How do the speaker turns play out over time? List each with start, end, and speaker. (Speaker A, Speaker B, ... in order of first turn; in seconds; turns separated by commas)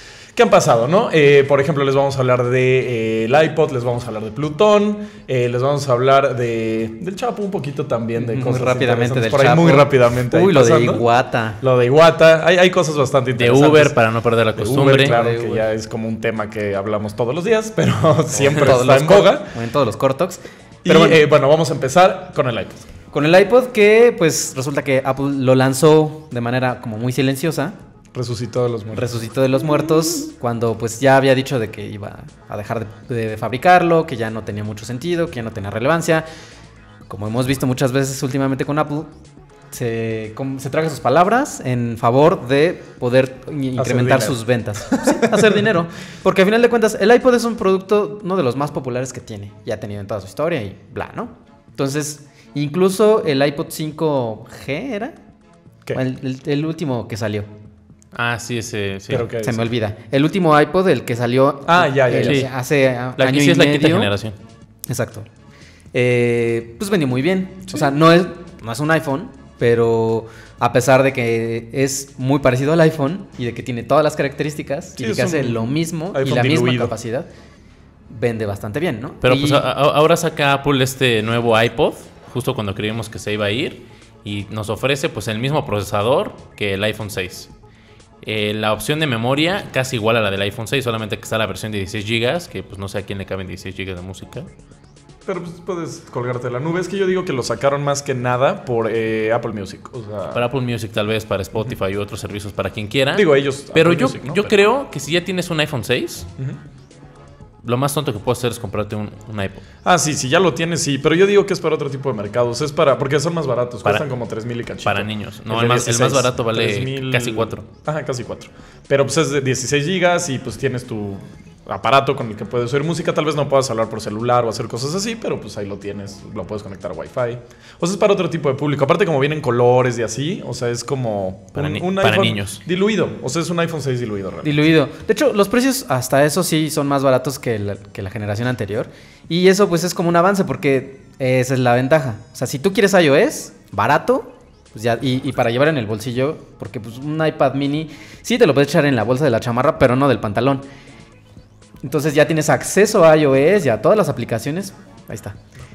Speaker A: 0.3-11.0, Speaker B: 8.2-11.6, Speaker A: 11.6-13.9, Speaker C: 13.4-15.2, Speaker A: 14.6-19.5, Speaker B: 14.9-15.7, Speaker B: 18.3-21.2, Speaker A: 20.9-22.9, Speaker B: 23.1-27.8, Speaker A: 28.1-29.0, Speaker B: 28.9-36.2, Speaker B: 37.1-39.1, Speaker B: 39.7-55.2, Speaker A: 43.8-45.6, Speaker B: 56.0-57.5, Speaker C: 58.1-59.3, Speaker A: 59.1-59.7, Speaker B: 59.4-64.1, Speaker A: 61.7-62.5, Speaker C: 62.2-62.5, Speaker C: 63.2-64.3, Speaker B: 64.9-65.3, Speaker B: 65.9-77.3, Speaker A: 75.0-77.0, Speaker B: 78.1-79.7, Speaker C: 79.2-87.5, Speaker C: 88.2-94.5, Speaker A: 95.2-100.5, Speaker C: 100.3-106.3, Speaker A: 103.1-104.5, Speaker C: 107.6-109.6, Speaker A: 109.8-134.7, Speaker C: 114.8-117.6, Speaker C: 131.6-132.6, Speaker B: 134.4-150.6, Speaker B: 151.8-155.4